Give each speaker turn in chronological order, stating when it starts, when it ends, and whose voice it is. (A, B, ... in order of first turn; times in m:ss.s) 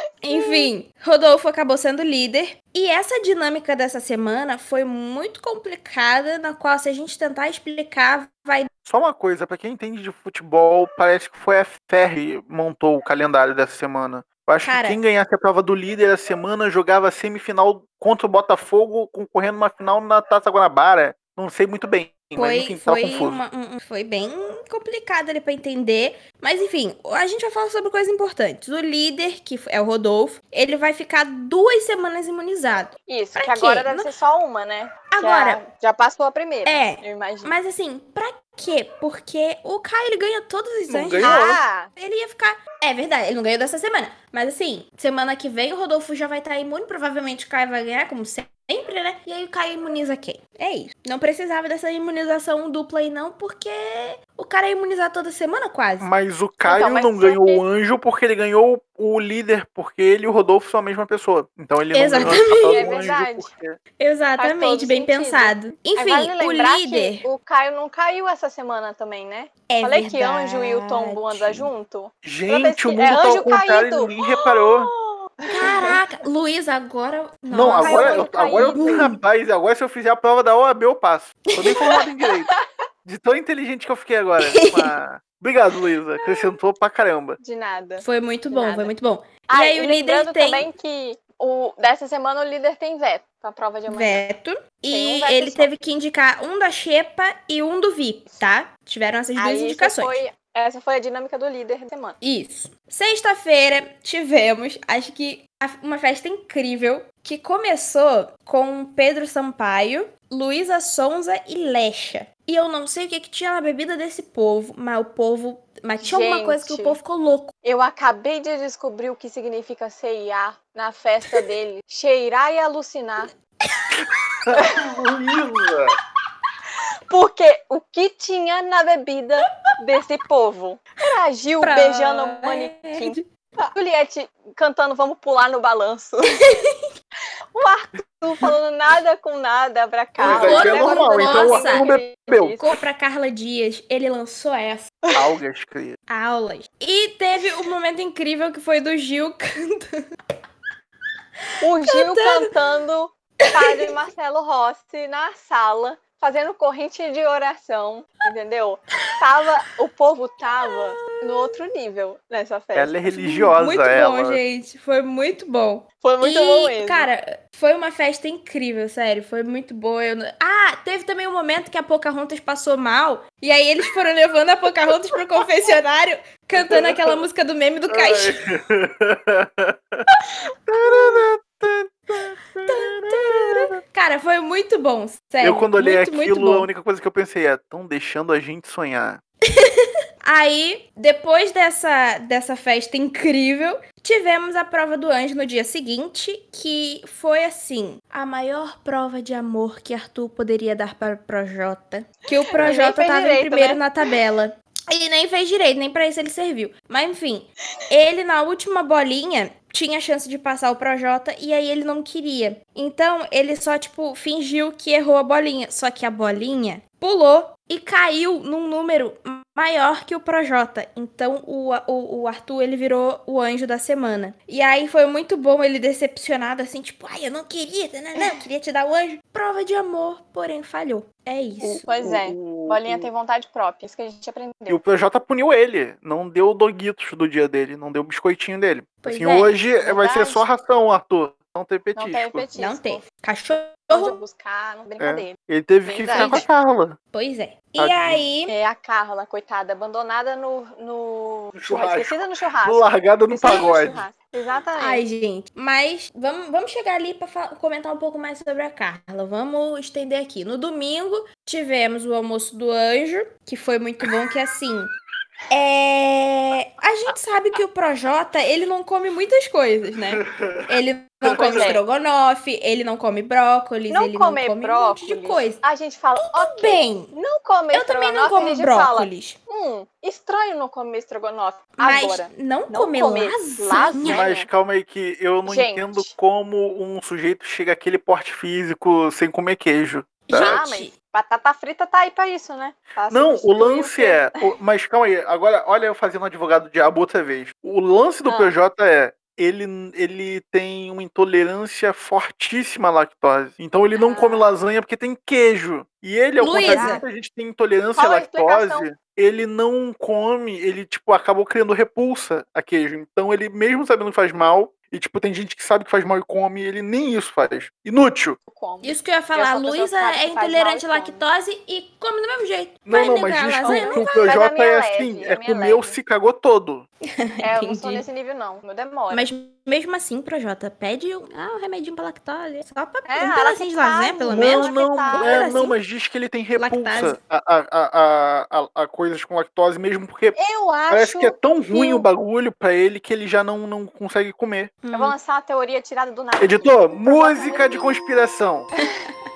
0:00.2-0:08.7 A
0:00.3-0:00.7 B
0:08.8-0:23.4 C
0:14.6-0:15.0 A
0:22.4-0:34.1 A
0:33.1-0:37.6 B
0:35.1-0:35.6 A
0:36.6-0:56.1 A
0:40.9-0:41.6 C
0:41.2-0:41.9 B
0:56.0-1:03.8 C
0:56.6-0:57.6 B
1:01.9-1:02.9 A
1:02.2-1:03.5 B
1:04.0-1:07.3 A
1:04.4-1:16.0 B
1:09.7-1:11.7 A
1:12.2-1:14.9 C
1:15.5-1:19.1 A
1:17.5-1:22.5 C
1:17.8-1:19.1 B
1:23.0-1:27.4 C
1:24.4-1:24.9 A
1:27.4-1:28.9 B
1:28.0-1:30.7 A
1:29.5-1:34.2 B
1:33.9-1:40.2 A
1:34.9-1:35.7 B
1:39.4-1:42.2 B
1:42.2-1:57.5 A
1:56.0-1:57.0 B
1:57.6-2:03.3 B
2:04.4-2:06.0 C
2:07.1-2:16.3 B
2:11.6-2:13.2 A
2:16.4-2:16.8 A
2:17.5-2:22.6 B
2:20.2-2:22.8 C
2:20.2-2:21.9 A
2:22.6-2:24.9 A
2:25.1-2:26.0 C
2:26.1-2:30.0 A
2:31.6-2:42.9 B
2:31.9-2:32.5 A
2:33.4-2:33.9 A
2:40.7-2:41.6 A
2:42.7-2:44.4 C
2:43.0-2:58.4 A
2:46.0-2:47.1 B
2:56.6-2:57.1 C
2:57.9-3:00.1 C
3:00.7-3:03.7 C
3:00.8-3:01.1 A
3:02.6-3:06.7 A
3:05.4-3:09.2 C
3:09.5-3:51.9 A
3:22.6-3:23.9 B
3:51.6-3:53.1 C
3:51.8-3:54.8 B
3:54.7-4:02.4 C
3:59.0-3:59.6 A
3:59.8-4:00.4 B
4:02.0-4:03.0 B
4:02.6-4:04.2 A
4:03.9-4:06.4 B
4:05.0-4:07.0 C
4:06.1-4:06.4 A
4:07.1-4:08.5 A
4:07.8-4:08.2 C
4:08.5-4:15.0 B
4:11.5-4:14.1 C
4:14.8-4:24.9 A
4:25.5-4:35.6 A
4:30.1-4:30.7 C
4:31.2-4:31.8 C
4:31.4-4:31.8 B
4:33.9-4:44.5 B
4:36.2-4:37.1 A
4:37.7-4:39.4 A
4:41.8-4:44.3 A
4:44.0-4:50.6 C
4:45.4-4:46.1 B
4:50.3-4:50.9 A
4:50.3-4:54.4 B
4:53.1-5:18.4 C
4:58.2-4:58.5 B
5:03.9-5:04.5 B
5:06.4-5:07.0 A
5:06.5-5:07.0 B
5:08.0-5:08.8 B
5:18.5-5:21.2 B
5:18.8-5:24.1 A
5:22.8-5:26.8 C
5:23.6-5:26.0 B
5:27.2-5:28.0 A
5:27.4-5:29.3 B
5:29.1-5:35.8 A
5:33.1-5:35.5 B
5:34.3-5:40.4 C
5:36.6-5:37.2 A
5:40.3-5:42.0 B
5:40.9-5:44.8 C
5:44.8-5:45.1 A
5:44.9-5:47.9 B
5:46.4-5:48.7 C
5:48.8-5:49.1 A